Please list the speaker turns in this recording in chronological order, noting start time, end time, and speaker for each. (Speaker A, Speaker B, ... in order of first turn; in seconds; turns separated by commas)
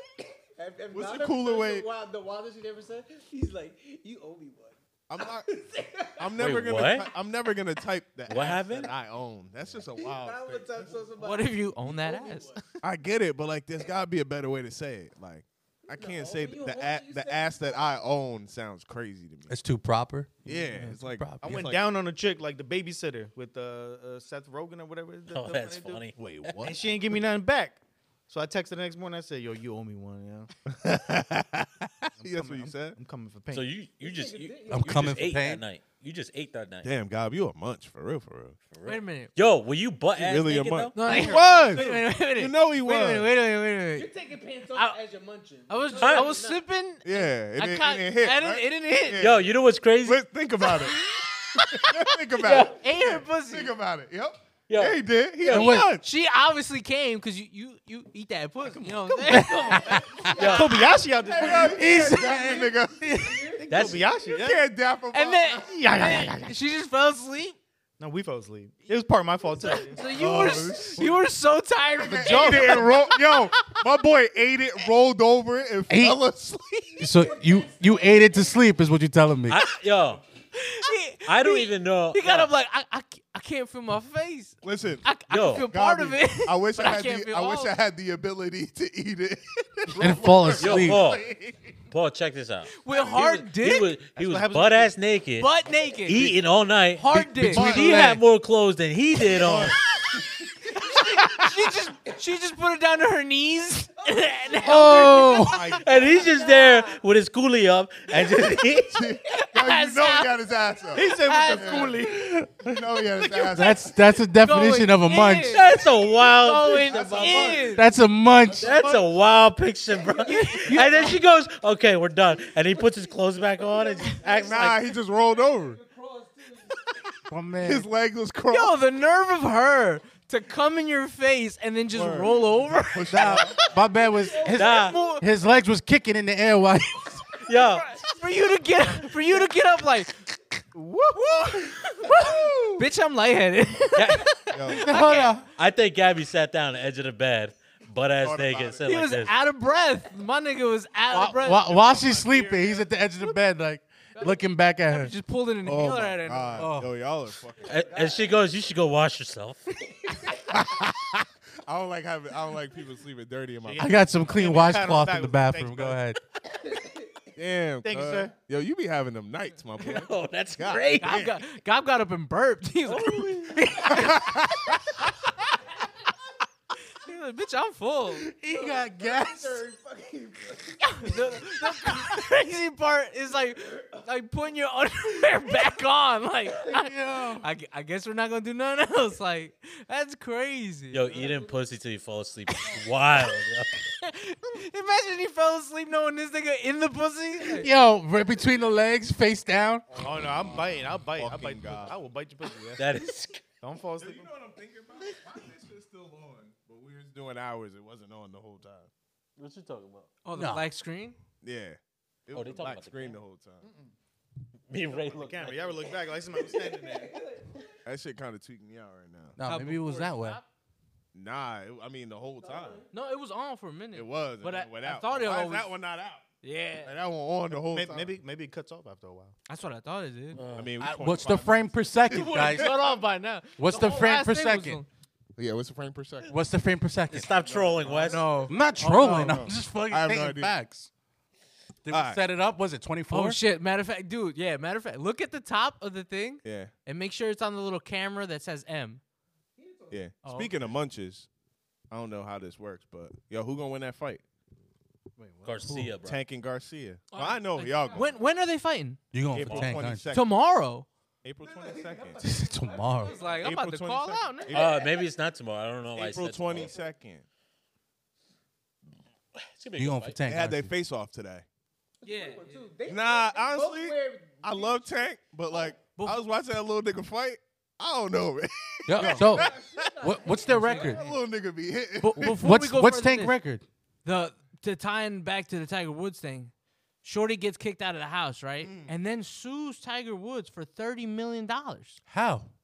Speaker A: 0.6-6.7, Speaker B: 0.9-1.9, Speaker B: 5.1-5.5, Speaker B: 6.2-11.0, Speaker C: 6.4-7.1, Speaker C: 8.3-8.9, Speaker A: 8.5-8.9, Speaker A: 9.9-12.7, Speaker D: 11.2-12.6, Speaker B: 12.8-19.6, Speaker A: 15.8-18.0, Speaker E: 19.5-21.7, Speaker B: 20.4-21.8, Speaker F: 21.4-26.1, Speaker C: 25.3-26.6, Speaker B: 26.2-27.1, Speaker F: 26.6-30.5, Speaker B: 30.7-33.0, Speaker F: 32.2-33.7, Speaker C: 33.5-36.9, Speaker A: 34.0-35.2, Speaker E: 34.7-35.6, Speaker B: 36.8-38.6, Speaker C: 38.7-41.0, Speaker D: 38.8-39.3, Speaker B: 40.2-43.3, Speaker D: 40.9-44.1, Speaker A: 43.9-46.6, Speaker D: 45.7-49.3, Speaker C: 46.0-46.3, Speaker B: 47.0-49.5, Speaker C: 49.2-50.2, Speaker B: 50.0-51.0, Speaker D: 50.6-51.9, Speaker B: 51.5-56.0, Speaker C: 52.4-52.7, Speaker D: 52.5-53.7, Speaker C: 54.7-55.7, Speaker E: 55.5-55.9, Speaker D: 55.5-60.7, Speaker F: 58.7-59.3, Speaker E: 59.3-59.7, Speaker A: 60.2-60.7, Speaker C: 60.4-60.8, Speaker F: 60.4-61.9, Speaker B: 61.3-63.1, Speaker A: 61.3-63.9, Speaker E: 61.6-63.4, Speaker F: 63.6-64.6, Speaker C: 63.7-64.0, Speaker B: 64.3-65.7, Speaker D: 65.1-67.6, Speaker F: 65.6-66.5, Speaker F: 68.0-70.0, Speaker D: 69.6-73.0, Speaker B: 70.1-71.2, Speaker B: 72.0-77.0, Speaker F: 72.1-73.5, Speaker E: 75.9-76.2, Speaker A: 77.0-78.7, Speaker E: 77.0-79.6, Speaker C: 79.5-80.2, Speaker D: 80.5-87.7, Speaker C: 81.2-82.5, Speaker B: 84.6-85.0, Speaker C: 85.3-85.7, Speaker B: 85.6-91.7, Speaker E: 89.9-91.1, Speaker C: 90.6-91.2, Speaker C: 91.9-95.5, Speaker D: 92.8-93.9, Speaker F: 94.1-95.0, Speaker D: 95.4-96.4, Speaker C: 96.0-99.8, Speaker D: 97.0-98.2, Speaker E: 97.1-98.2, Speaker B: 97.5-97.9, Speaker B: 99.2-100.4, Speaker D: 100.7-105.5, Speaker A: 104.0-107.0, Speaker E: 104.6-105.7, Speaker F: 105.4-105.8, Speaker C: 105.8-109.0, Speaker B: 108.9-114.0, Speaker D: 109.3-110.3, Speaker F: 110.9-112.3, Speaker D: 111.0-111.9, Speaker E: 113.2-115.6, Speaker D: 114.4-117.9, Speaker C: 115.5-117.2, Speaker A: 116.5-117.9, Speaker B: 116.9-117.7, Speaker E: 117.7-118.8, Speaker A: 118.5-119.1, Speaker C: 118.5-124.9, Speaker A: 119.9-121.2, Speaker D: 120.2-121.2, Speaker A: 122.3-126.9, Speaker B: 124.5-125.8, Speaker E: 127.3-127.9, Speaker B: 127.6-128.8, Speaker D: 128.5-133.5, Speaker B: 131.9-133.7, Speaker E: 133.1-137.3, Speaker A: 133.5-135.2, Speaker C: 134.5-135.1, Speaker D: 134.6-135.2, Speaker C: 137.4-137.9, Speaker D: 137.5-140.2, Speaker B: 140.7-142.8, Speaker D: 141.1-145.4, Speaker C: 143.9-144.3, Speaker B: 144.5-144.9, Speaker E: 144.8-145.4, Speaker C: 145.0-149.3, Speaker B: 148.2-148.8, Speaker D: 148.8-151.7, Speaker E: 151.1-155.1, Speaker B: 151.7-152.8, Speaker A: 154.2-154.4, Speaker D: 154.8-156.7, Speaker B: 155.6-157.8, Speaker E: 156.6-156.9, Speaker A: 157.6-158.5, Speaker C: 157.6-159.6, Speaker A: 160.1-160.4, Speaker B: 160.5-164.0, Speaker F: 163.6-166.0, Speaker E: 163.8-166.2, Speaker A: 166.6-167.2, Speaker B: 167.3-171.3, Speaker F: 167.8-168.3, Speaker D: 169.8-170.0, Speaker C: 169.8-171.3, Speaker D: 171.0-174.2, Speaker C: 172.8-173.9, Speaker B: 174.0-174.7, Speaker D: 177.0-178.3, Speaker E: 178.4-179.6, Speaker A: 178.4-181.9, Speaker D: 180.8-191.2, Speaker A: 183.5-184.0, Speaker E: 186.7-187.4, Speaker C: 190.9-193.8, Speaker A: 191.1-191.6, Speaker D: 194.0-197.7, Speaker E: 197.6-199.8, Speaker B: 199.9-202.0, Speaker F: 199.9-202.9, Speaker C: 202.8-203.4, Speaker F: 203.6-204.3, Speaker B: 204.0-208.9, Speaker C: 209.4-210.1, Speaker D: 210.2-211.2, Speaker E: 210.3-210.7, Speaker B: 211.4-213.7, Speaker C: 212.3-213.2, Speaker A: 213.6-213.9, Speaker C: 214.7-215.9, Speaker F: 215.1-217.2, Speaker A: 216.3-217.7, Speaker B: 217.8-219.4, Speaker E: 219.3-220.4, Speaker D: 219.4-220.4, Speaker B: 221.1-222.8, Speaker A: 222.3-222.9, Speaker D: 222.9-225.7, Speaker B: 223.9-226.2, Speaker D: 226.4-226.9, Speaker B: 226.8-228.1, Speaker F: 227.5-229.3, Speaker D: 229.5-230.4, Speaker C: 230.3-230.8, Speaker B: 230.5-232.7, Speaker E: 230.8-232.8, Speaker D: 232.1-234.8, Speaker E: 233.6-234.8, Speaker B: 235.3-236.4, Speaker E: 236.2-237.3, Speaker C: 237.1-238.3, Speaker B: 237.3-240.6, Speaker D: 238.0-239.3, Speaker E: 238.4-240.9, Speaker E: 241.8-243.4, Speaker B: 241.9-242.2, Speaker D: 243.1-249.0, Speaker B: 246.4-246.7, Speaker A: 249.6-250.1, Speaker B: 249.9-251.3, Speaker D: 250.2-250.7, Speaker B: 251.9-254.2, Speaker F: 255.2-255.7, Speaker C: 255.4-256.2, Speaker B: 256.0-258.1, Speaker D: 257.1-259.0, Speaker A: 257.8-258.2, Speaker E: 259.1-260.1, Speaker B: 259.3-260.3, Speaker C: 259.4-259.8, Speaker D: 260.1-260.9, Speaker B: 261.2-262.2, Speaker A: 261.4-263.6, Speaker E: 262.2-263.2, Speaker D: 263.0-264.6, Speaker B: 263.2-264.8, Speaker C: 264.5-266.7, Speaker A: 264.6-265.1, Speaker B: 265.9-267.2, Speaker A: 266.5-266.9, Speaker C: 269.4-270.2, Speaker E: 269.8-270.7, Speaker B: 270.2-271.4, Speaker A: 272.0-275.1, Speaker D: 272.0-272.7, Speaker B: 272.9-279.9, Speaker D: 275.5-276.2, Speaker E: 278.9-281.0, Speaker A: 279.0-281.2, Speaker D: 280.4-281.0, Speaker B: 280.8-282.4, Speaker D: 282.0-283.4, Speaker E: 282.2-283.6, Speaker D: 284.0-286.5, Speaker D: 287.0-292.0, Speaker B: 288.6-288.9, Speaker E: 292.1-292.5